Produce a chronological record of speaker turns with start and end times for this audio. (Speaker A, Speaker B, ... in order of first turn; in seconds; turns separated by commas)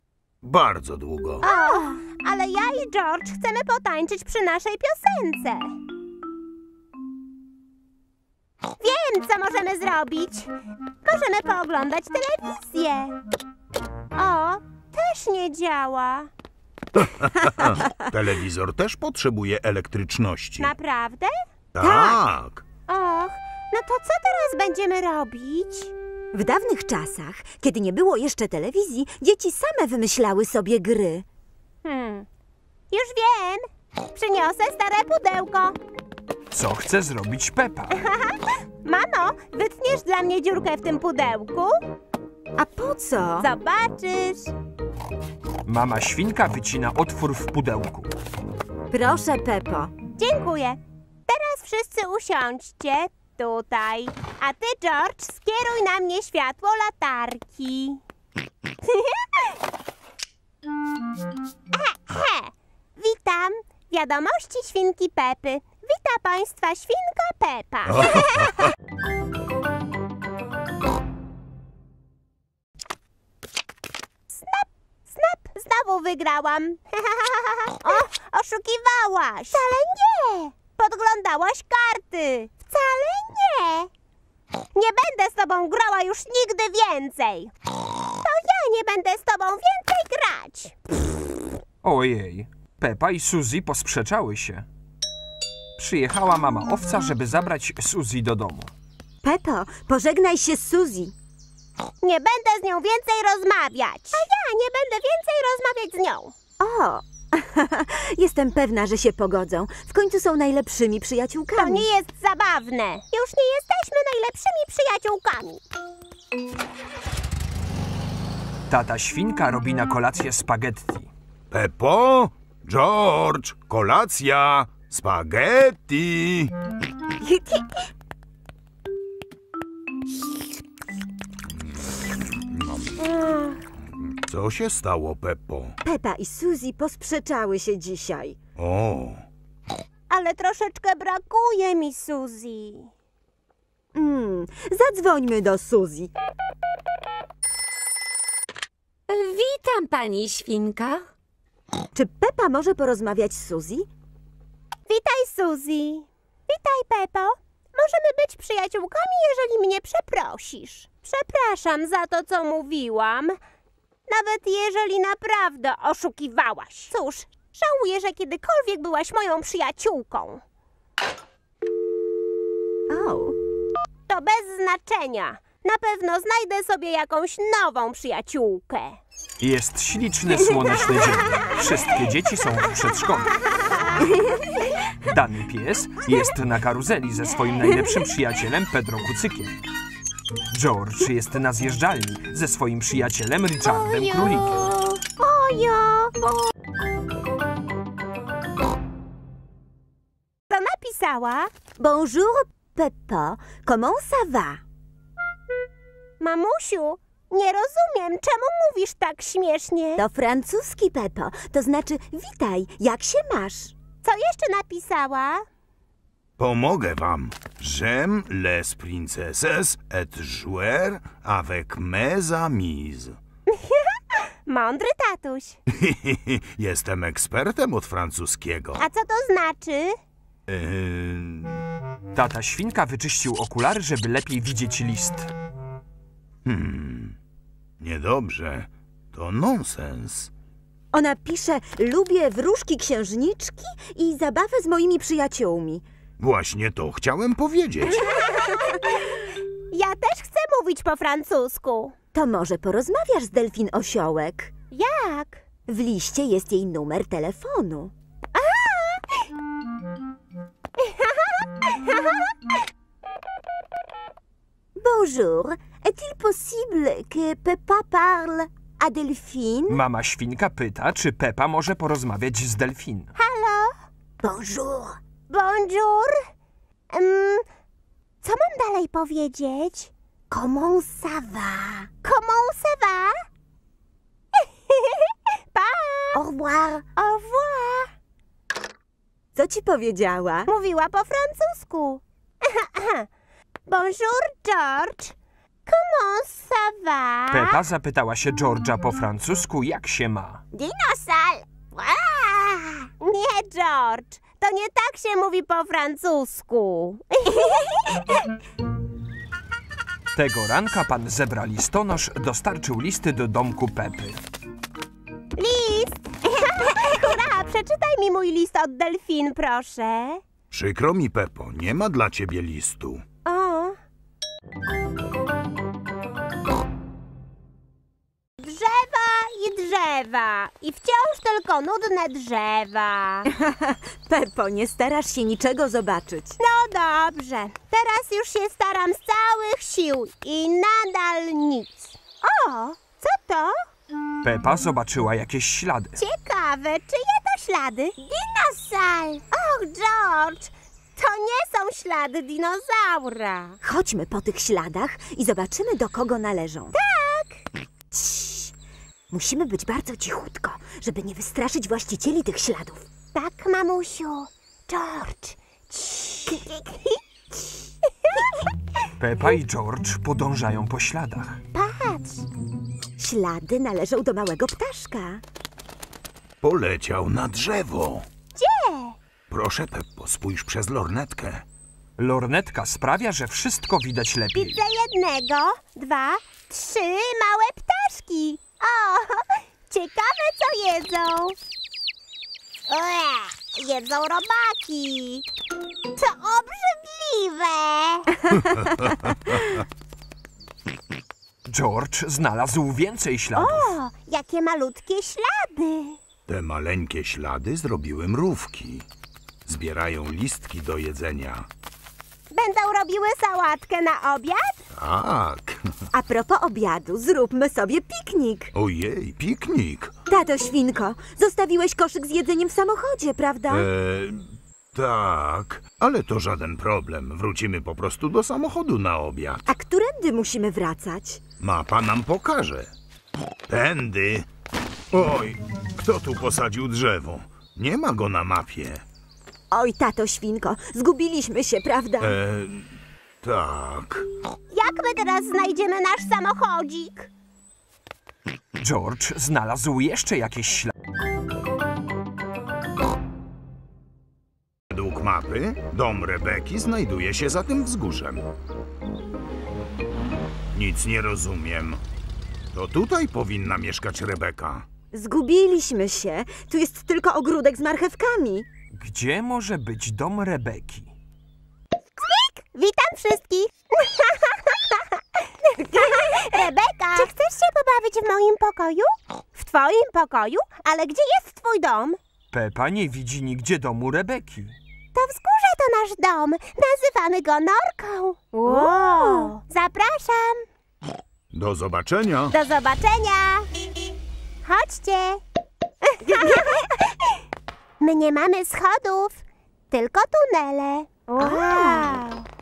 Speaker A: 0.4-1.4, Speaker B: 1.4-5.7, Speaker B: 8.8-10.5, Speaker B: 11.1-13.2, Speaker B: 14.2-16.3, Speaker A: 16.9-20.7, Speaker B: 20.6-21.3, Speaker A: 21.8-22.6, Speaker C: 21.8-22.2, Speaker B: 22.9-25.9, Speaker C: 26.3-31.2, Speaker B: 31.8-32.3, Speaker B: 32.9-35.8, Speaker D: 36.5-38.0, Speaker B: 38.1-41.8, Speaker C: 42.6-43.5, Speaker B: 43.4-44.5, Speaker D: 45.7-48.1, Speaker C: 48.9-49.9, Speaker B: 50.2-58.0, Speaker B: 61.7-68.4, Speaker A: 67.9-68.7, Speaker B: 74.3-83.9, Speaker B: 84.8-87.5, Speaker B: 88.2-90.8, Speaker D: 91.8-94.7, Speaker D: 95.8-98.7, Speaker C: 99.2-101.2, Speaker B: 102.0-106.3, Speaker C: 106.6-111.9, Speaker B: 111.6-115.6, Speaker D: 118.7-121.1, Speaker A: 121.5-126.5, Speaker C: 127.2-127.8, Speaker A: 131.5-133.0, Speaker B: 133.0-133.6, Speaker A: 133.9-135.8, Speaker C: 135.8-138.4, Speaker A: 138.6-139.2, Speaker B: 140.1-142.9, Speaker C: 143.9-146.1, Speaker E: 149.1-151.1, Speaker C: 151.9-153.9, Speaker B: 154.9-163.4, Speaker B: 164.1-170.4, Speaker C: 172.9-173.4, Speaker B: 174.1-179.0, Speaker D: 179.4-183.4, Speaker D: 185.0-189.6, Speaker D: 190.5-194.7, Speaker C: 195.2-196.1, Speaker B: 200.5-201.5, Speaker C: 201.8-204.6, Speaker B: 206.2-210.0, Speaker C: 210.0-213.7, Speaker B: 214.0-215.4, Speaker A: 216.4-223.2, Speaker B: 223.5-225.6, Speaker A: 225.7-228.8, Speaker B: 228.8-230.0, Speaker A: 230.5-231.6, Speaker D: 232.1-235.3, Speaker A: 236.4-237.2, Speaker A: 237.8-240.3, Speaker C: 240.9-245.9, Speaker A: 246.2-248.1, Speaker B: 248.2-251.9, Speaker C: 252.1-254.5, Speaker B: 254.7-255.4, Speaker C: 255.7-257.9, Speaker B: 258.4-259.0, Speaker B: 260.8-261.1, Speaker B: 261.7-262.0, Speaker C: 264.8-269.8, Speaker D: 269.7-273.1, Speaker B: 273.2-273.7, Speaker C: 274.2-275.0, Speaker B: 275.3-276.2, Speaker B: 276.9-277.4, Speaker B: 278.2-279.9, Speaker C: 280.3-281.8, Speaker B: 282.0-283.2, Speaker B: 284.7-286.2, Speaker C: 286.1-286.8, Speaker B: 287.0-287.9, Speaker C: 289.4-290.5, Speaker B: 290.5-293.1, Speaker B: 293.7-295.1, Speaker B: 295.7-297.6, Speaker D: 297.3-300.4, Speaker C: 300.6-301.1, Speaker B: 303.0-307.6, Speaker D: 310.1-314.2, Speaker B: 315.4-320.2, Speaker A: 320.5-323.0, Speaker B: 323.2-323.8, Speaker B: 328.4-333.3, Speaker C: 333.3-336.4, Speaker B: 336.4-343.6, Speaker D: 344.2-346.0, Speaker B: 346.0-348.0, Speaker C: 348.1-349.2, Speaker B: 349.3-353.6, Speaker C: 353.6-356.8, Speaker B: 356.7-357.4, Speaker C: 357.9-358.5, Speaker C: 359.1-362.9, Speaker B: 363.1-367.0, Speaker D: 369.0-371.4, Speaker B: 371.5-372.2, Speaker C: 373.0-375.2, Speaker A: 376.4-378.1, Speaker B: 378.4-379.0, Speaker A: 379.3-381.4, Speaker D: 382.0-384.6, Speaker B: 384.4-391.4, Speaker B: 392.7-395.2, Speaker B: 396.0-398.2, Speaker A: 398.3-399.7, Speaker D: 401.5-403.7, Speaker B: 403.4-406.0, Speaker A: 406.3-408.9, Speaker A: 409.5-411.5, Speaker B: 412.3-414.6, Speaker A: 414.7-415.7, Speaker C: 415.9-418.5, Speaker A: 418.6-420.0, Speaker C: 420.1-423.7, Speaker A: 423.5-429.5, Speaker C: 429.5-431.2, Speaker A: 431.4-432.7, Speaker A: 433.5-434.3, Speaker A: 434.9-438.9, Speaker C: 439.5-442.2, Speaker A: 442.0-444.1, Speaker B: 444.5-447.1, Speaker D: 448.6-450.7, Speaker A: 454.7-458.3, Speaker A: 460.5-461.8, Speaker A: 462.5-464.7, Speaker C: 464.9-468.5, Speaker D: 468.7-470.9, Speaker B: 472.0-474.9, Speaker B: 475.4-482.0, Speaker C: 475.7-477.1, Speaker D: 482.3-484.6, Speaker B: 484.9-490.4, Speaker C: 488.5-489.3, Speaker A: 491.3-492.4, Speaker B: 492.3-493.5, Speaker B: 494.4-495.2, Speaker B: 496.0-496.5, Speaker C: 496.1-496.8, Speaker B: 497.8-502.3, Speaker C: 501.2-501.9